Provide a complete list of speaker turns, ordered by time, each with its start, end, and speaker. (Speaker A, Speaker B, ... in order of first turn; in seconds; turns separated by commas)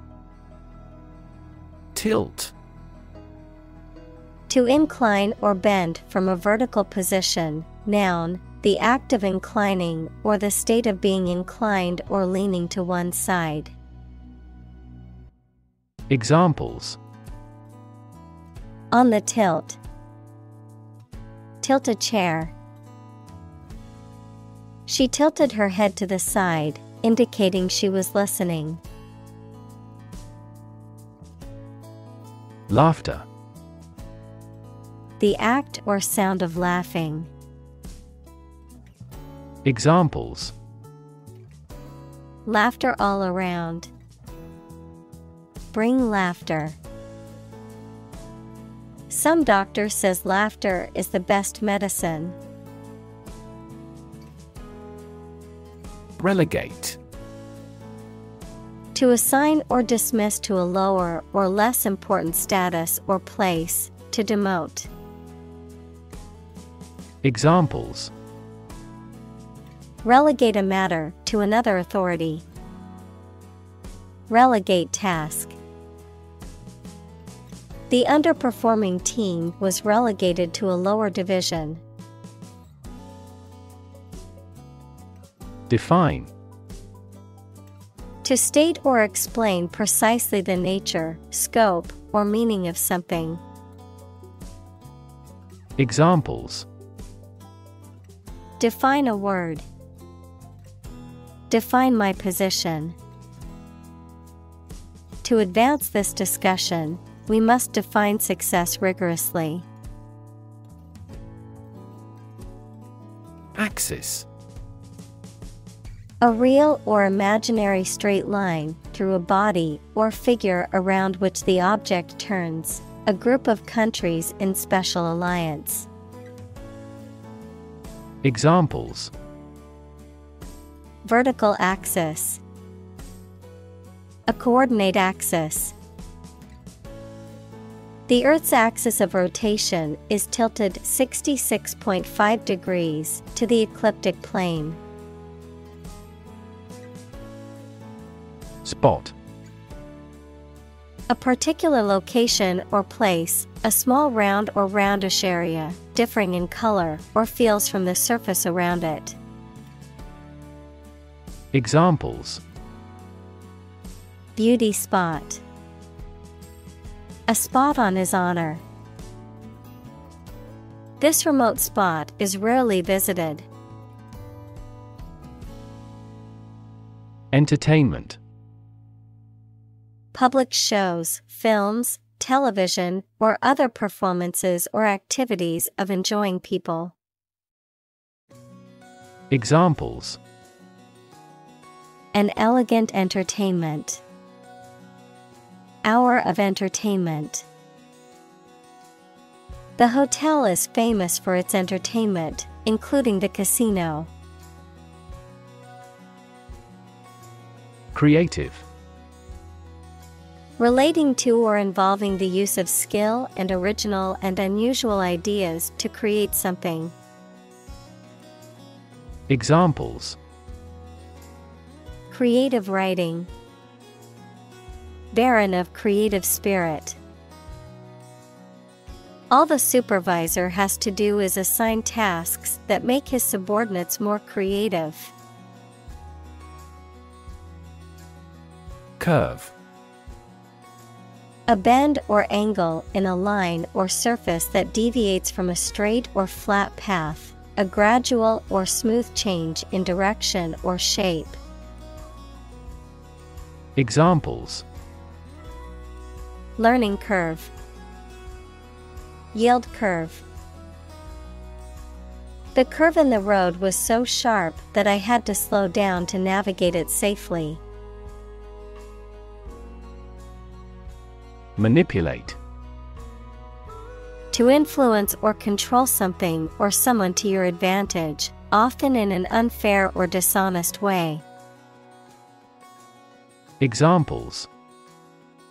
Speaker A: 1.9-2.5, Speaker B: 4.5-13.8, Speaker A: 16.1-17.0, Speaker B: 18.9-19.8, Speaker B: 21.6-22.6, Speaker B: 24.9-28.8, Speaker A: 32.7-33.3, Speaker B: 35.2-37.3, Speaker A: 39.6-40.5, Speaker B: 42.5-43.9, Speaker B: 45.7-46.8, Speaker B: 49.1-52.4, Speaker A: 56.2-57.0, Speaker B: 59.0-64.9, Speaker A: 67.2-68.1, Speaker B: 70.0-72.5, Speaker B: 74.3-75.6, Speaker B: 77.9-81.8, Speaker A: 85.7-86.3, Speaker B: 88.2-93.4, Speaker A: 95.8-96.7, Speaker B: 98.6-99.7, Speaker B: 101.5-103.0, Speaker B: 105.2-109.7, Speaker A: 113.5-114.3, Speaker B: 116.2-125.9, Speaker A: 128.2-129.1, Speaker B: 131.0-132.4, Speaker B: 134.3-135.8, Speaker B: 138.1-144.8, Speaker A: 148.6-149.2, Speaker B: 151.1-159.2, Speaker A: 161.5-162.4, Speaker B: 164.4-165.4, Speaker B: 167.3-168.6, Speaker B: 171.0-173.5, Speaker A: 177.3-178.2, Speaker B: 180.1-186.9, Speaker A: 189.3-190.2, Speaker B: 192.1-194.0, Speaker B: 195.8-197.5, Speaker B: 199.8-204.1, Speaker A: 207.9-208.7, Speaker B: 210.6-216.9, Speaker A: 219.3-220.2, Speaker B: 222.1-223.3, Speaker B: 225.1-227.0, Speaker B: 229.3-235.1, Speaker A: 239.0-239.5, Speaker B: 241.5-251.4, Speaker A: 253.8-254.7, Speaker B: 256.6-257.5, Speaker B: 259.3-260.2, Speaker B: 262.6-267.6, Speaker A: 271.6-272.4, Speaker B: 274.3-281.2, Speaker A: 283.6-284.5